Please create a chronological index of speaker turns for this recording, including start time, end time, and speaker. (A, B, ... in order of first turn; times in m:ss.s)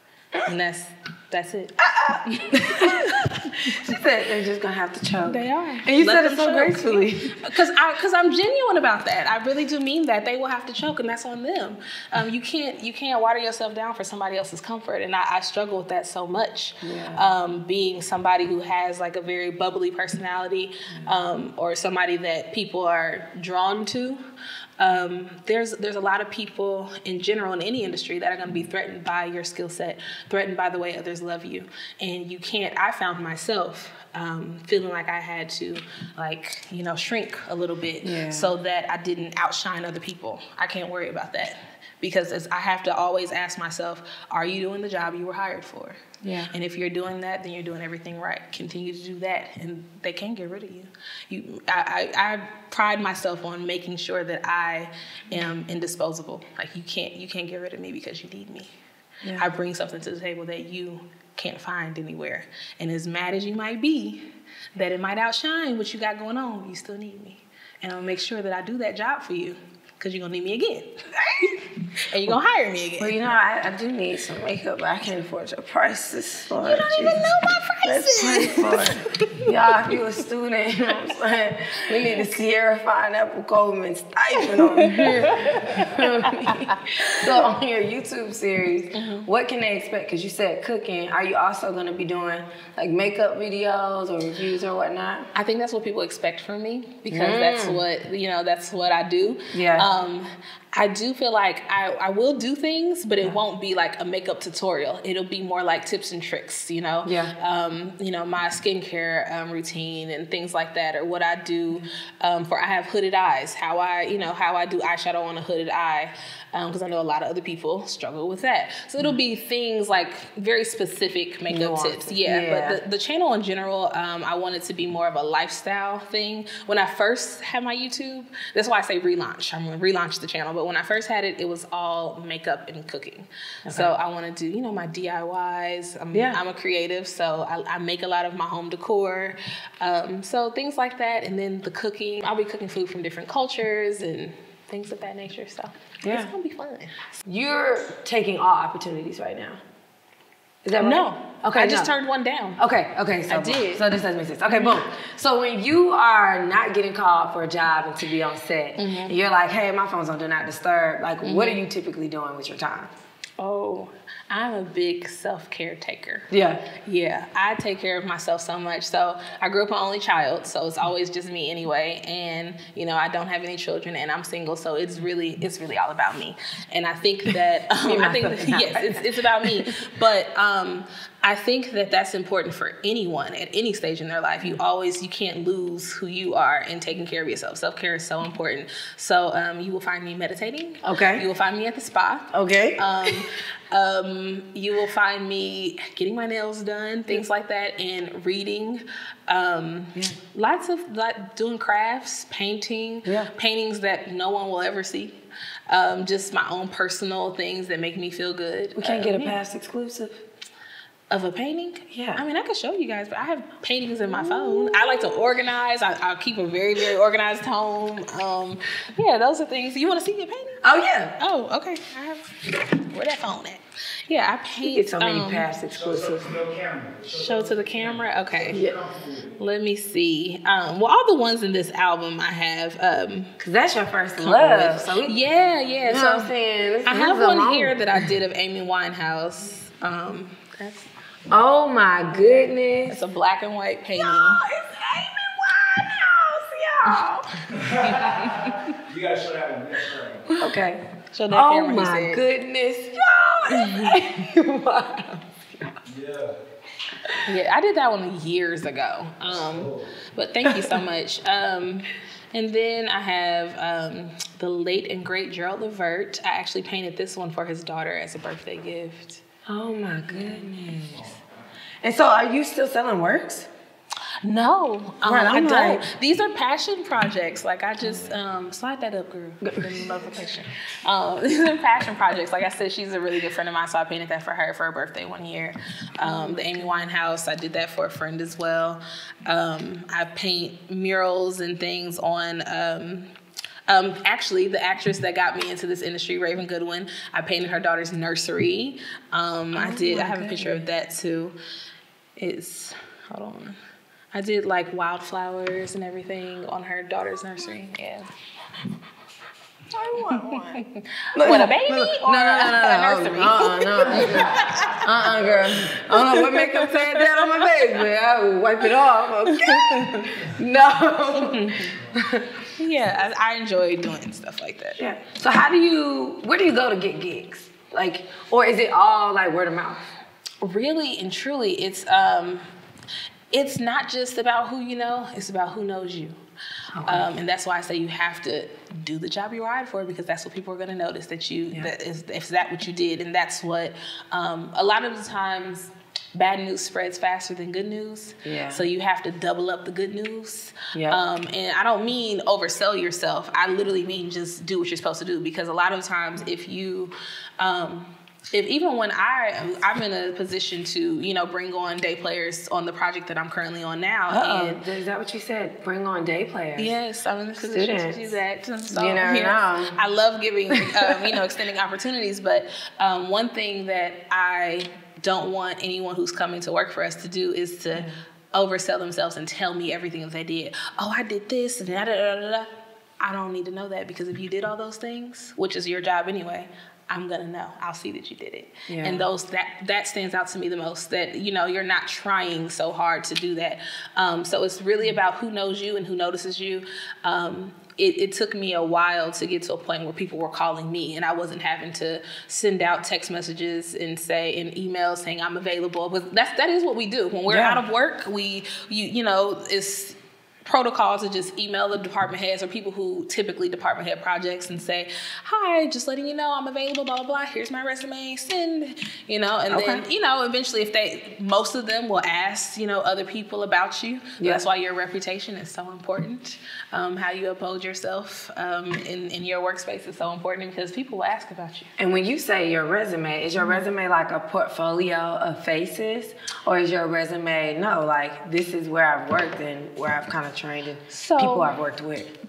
0:00.4-0:03.9 A
0:02.5-0:07.5 B
0:05.2-0:24.2 A
0:16.8-0:17.3 B
0:24.8-0:58.7 A
0:38.0-0:38.5 B
0:46.2-0:46.5 B
0:59.2-0:59.5 B
0:59.4-1:13.2 A
1:13.0-1:17.3 B
1:16.6-1:19.4 A
1:17.8-1:35.3 B
1:21.9-1:22.2 A
1:24.4-1:27.2 A
1:28.9-1:29.3 A
1:35.3-2:27.0 A
1:37.1-1:37.8 B
1:39.5-1:39.9 B
1:47.0-1:47.3 B
2:01.5-2:02.8 B
2:13.7-2:13.9 B
2:16.1-2:16.4 B
2:26.0-2:26.3 B
2:27.2-2:29.6 B
2:30.6-2:31.9 B
2:30.8-2:32.6 A
2:32.6-2:42.9 B
2:33.3-2:33.8 A
2:34.5-2:34.8 A
2:38.8-2:39.1 A
2:41.2-2:41.6 A
2:43.4-3:29.4 A
2:46.3-2:46.6 B
2:57.8-2:59.8 B
3:10.8-3:11.2 B
3:12.3-3:13.2 B
3:23.0-3:23.3 B
3:28.8-3:30.2 B
3:31.1-3:45.5 A
3:31.9-3:32.2 B
3:34.1-3:35.3 B
3:40.6-3:41.1 B
3:44.6-3:46.4 B
3:45.7-3:49.3 C
3:47.1-3:48.6 A
3:48.5-3:48.8 B
3:49.4-3:53.3 A
3:53.4-3:55.2 B
3:54.2-3:56.3 A
3:55.9-3:58.1 B
3:56.8-4:00.9 A
4:01.3-4:03.0 B
4:02.9-4:04.4 A
4:03.9-4:07.5 B
4:07.5-4:10.3 C
4:07.8-4:08.6 A
4:10.3-4:15.2 B
4:11.1-4:12.2 A
4:13.5-4:14.0 A
4:15.8-4:16.4 C
4:17.2-4:29.2 A
4:19.3-4:19.9 C
4:20.5-4:20.8 B
4:29.5-4:31.2 B
4:31.8-4:33.5 B
4:34.2-4:53.1 A
4:35.0-4:35.8 B
4:39.4-4:39.9 B
4:46.0-4:46.8 B
4:53.7-5:01.4 A
4:59.5-5:00.7 B
5:02.2-5:03.6 A
5:04.1-5:08.1 A
5:09.7-5:10.6 B
5:10.1-5:17.8 A
5:11.1-5:22.3 B
5:19.2-5:20.2 A
5:21.2-5:21.7 A
5:22.6-5:24.8 A
5:24.8-5:29.8 B
5:30.4-5:32.4 A
5:33.3-5:36.2 A
5:36.7-5:37.1 B
5:36.8-6:04.6 A
5:48.2-5:48.6 B
5:50.7-5:51.0 B
6:04.1-6:06.7 B
6:06.6-7:11.7 A
6:07.4-6:08.2 B
6:08.7-6:09.8 B
6:10.5-6:11.2 B
6:28.7-6:29.0 B
6:47.3-6:47.6 B
6:59.5-6:59.8 B
7:11.8-7:22.1 B
7:20.9-7:21.5 A